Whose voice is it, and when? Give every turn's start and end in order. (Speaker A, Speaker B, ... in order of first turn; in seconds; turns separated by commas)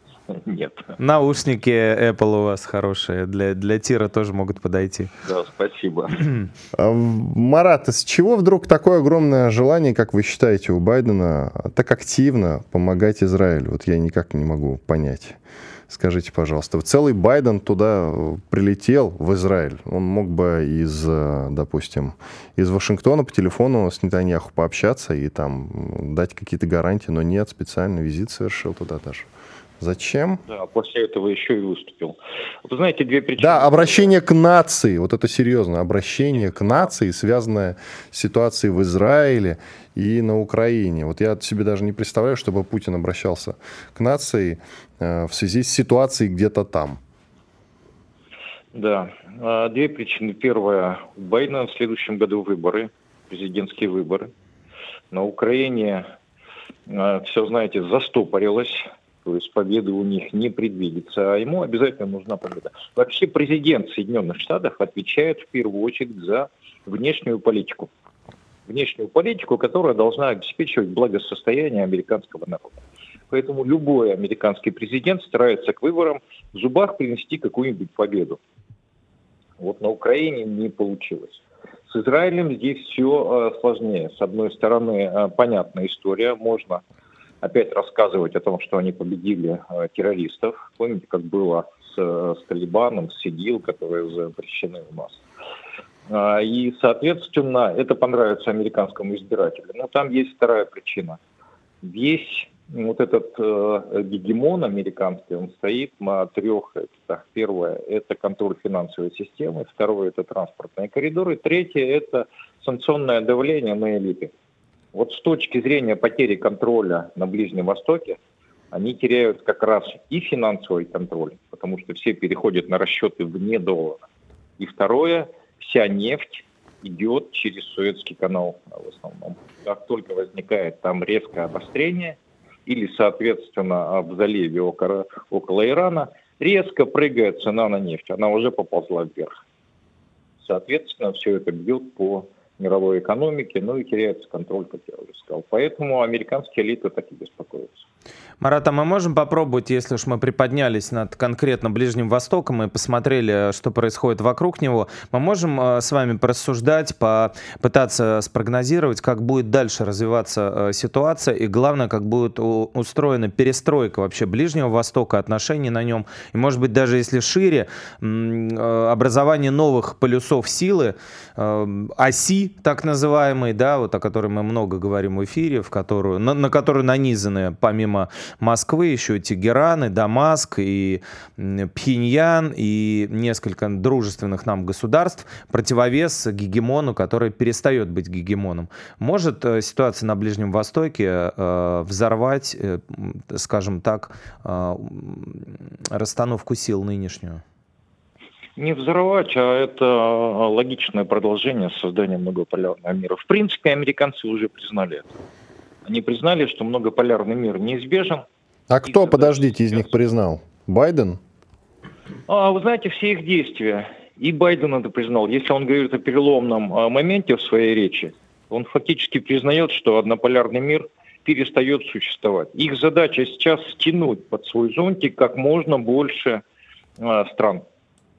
Speaker A: 0.3-0.9, Speaker B: 1.0-5.1, Speaker A: 5.2-6.3, Speaker C: 6.8-15.4, Speaker C: 15.9-29.3, Speaker C: 29.8-30.4, Speaker A: 30.5-34.1, Speaker C: 33.4-47.0, Speaker A: 48.8-54.3, Speaker A: 55.1-56.0, Speaker A: 56.9-67.9, Speaker A: 68.7-72.8, Speaker A: 73.3-78.4, Speaker A: 79.6-86.8, Speaker A: 87.4-95.2, Speaker A: 96.1-101.2, Speaker A: 101.8-114.3, Speaker A: 114.9-118.2, Speaker A: 118.7-124.0, Speaker A: 124.6-139.3, Speaker A: 140.4-147.8, Speaker B: 148.4-197.4, Speaker A: 198.6-205.2, Speaker A: 205.8-208.2, Speaker C: 208.7-211.2, Speaker A: 208.8-209.9, Speaker A: 212.3-226.4, Speaker A: 227.0-227.6